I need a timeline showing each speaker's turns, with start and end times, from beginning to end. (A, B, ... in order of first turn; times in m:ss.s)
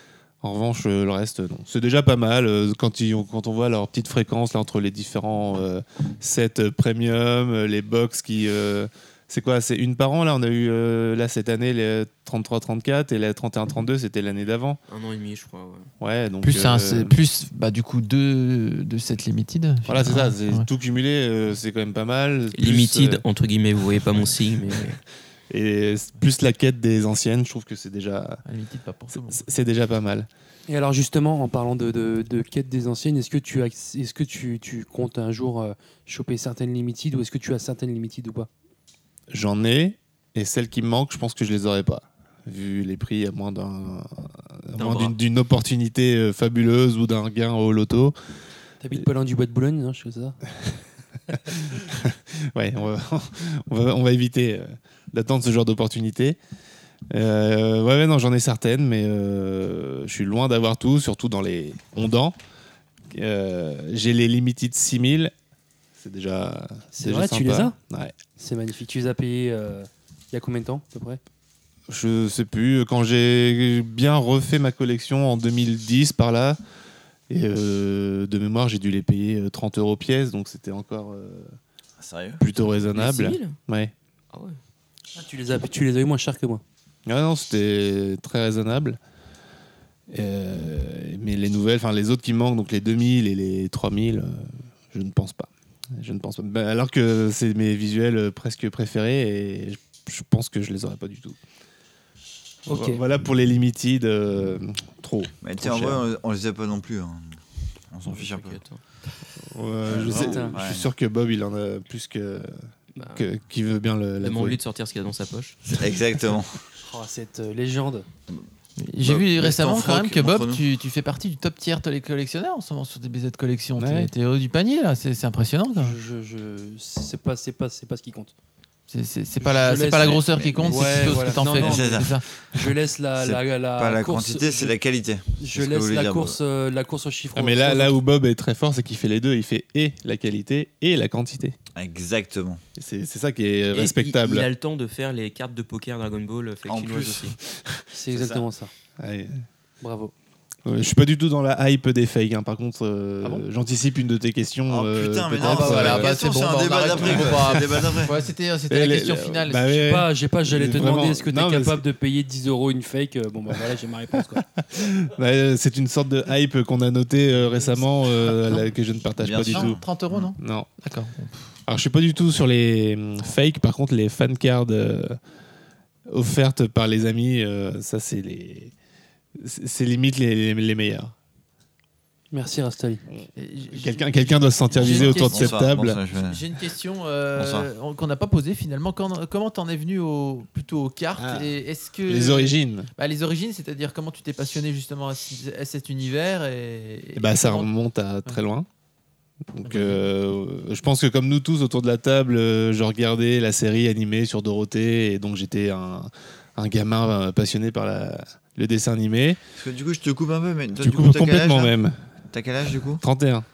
0:00.4-0:14.8 A
0:14.9-0:15.9 B
0:16.0-0:17.1 A
0:16.4-0:20.6 C
0:19.9-0:23.2 A
0:22.5-0:25.0 B
0:25.5-0:28.4 A
0:28.4-0:29.5 C
0:29.3-0:30.3 A
0:30.7-0:38.5 D
0:39.3-0:48.1 A
0:44.8-0:45.1 B
0:48.8-0:50.4 D
0:51.5-0:56.4 A
0:57.1-1:02.3 A
1:03.1-1:05.3 A
1:06.0-1:08.2 A
1:06.9-1:07.7 D
1:08.3-1:11.2 D
1:11.9-1:16.6 A
1:17.3-1:21.5 A
1:22.0-1:22.4 E
1:22.4-1:23.9 A
1:22.9-1:23.6 B
1:24.3-1:24.6 B
1:25.2-1:26.6 D
1:27.0-1:29.0 A
1:30.1-1:41.4 A
1:42.7-1:43.0 D
1:42.7-1:46.0 A
1:45.4-1:48.6 E
1:48.1-1:48.8 B
1:49.4-1:52.5 A
1:49.8-1:50.9 E
1:50.1-1:50.5 D
1:53.0-1:53.3 B
1:53.1-1:54.6 A
1:54.2-1:55.6 B
1:55.8-1:56.6 E
1:56.8-1:58.1 D
1:58.8-2:06.0 C
1:59.0-2:00.6 E
2:03.8-2:04.1 A
2:05.8-2:08.3 D
2:08.9-2:12.2 C
2:09.4-2:12.0 D
2:10.1-2:12.2 E
2:12.5-2:14.7 D
2:13.2-2:16.4 E
2:15.4-2:18.0 D
2:17.3-2:21.6 A
2:21.7-2:22.6 E
2:22.8-2:24.5 A
2:23.7-2:27.4 B
2:26.6-2:27.4 E
2:27.9-2:28.7 D
2:28.1-2:28.4 E
2:29.0-2:29.4 A
2:29.8-2:30.1 D
2:30.6-2:36.1 A
2:34.7-2:38.2 E
2:35.4-2:40.0 C
2:37.0-2:37.9 A
2:38.7-2:41.8 A
2:39.8-2:44.4 D
2:44.6-2:49.8 A
2:48.2-2:48.6 C
2:49.2-2:50.3 E
2:49.5-2:51.5 C
2:50.4-2:50.7 A
2:51.7-2:55.2 A
2:56.1-2:58.7 A
2:59.4-3:01.1 A
3:02.3-3:03.0 D
3:03.1-3:06.0 A
3:03.3-3:05.6 C
3:04.8-3:06.4 E
3:06.1-3:17.7 C
3:07.4-3:07.7 E
3:11.2-3:11.5 A
3:12.1-3:12.9 A
3:17.2-3:18.6 A
3:19.5-3:29.4 A
3:19.6-3:20.1 C
3:29.6-3:31.8 E
3:30.8-3:32.0 A
3:32.3-3:33.0 E
3:33.0-3:33.4 A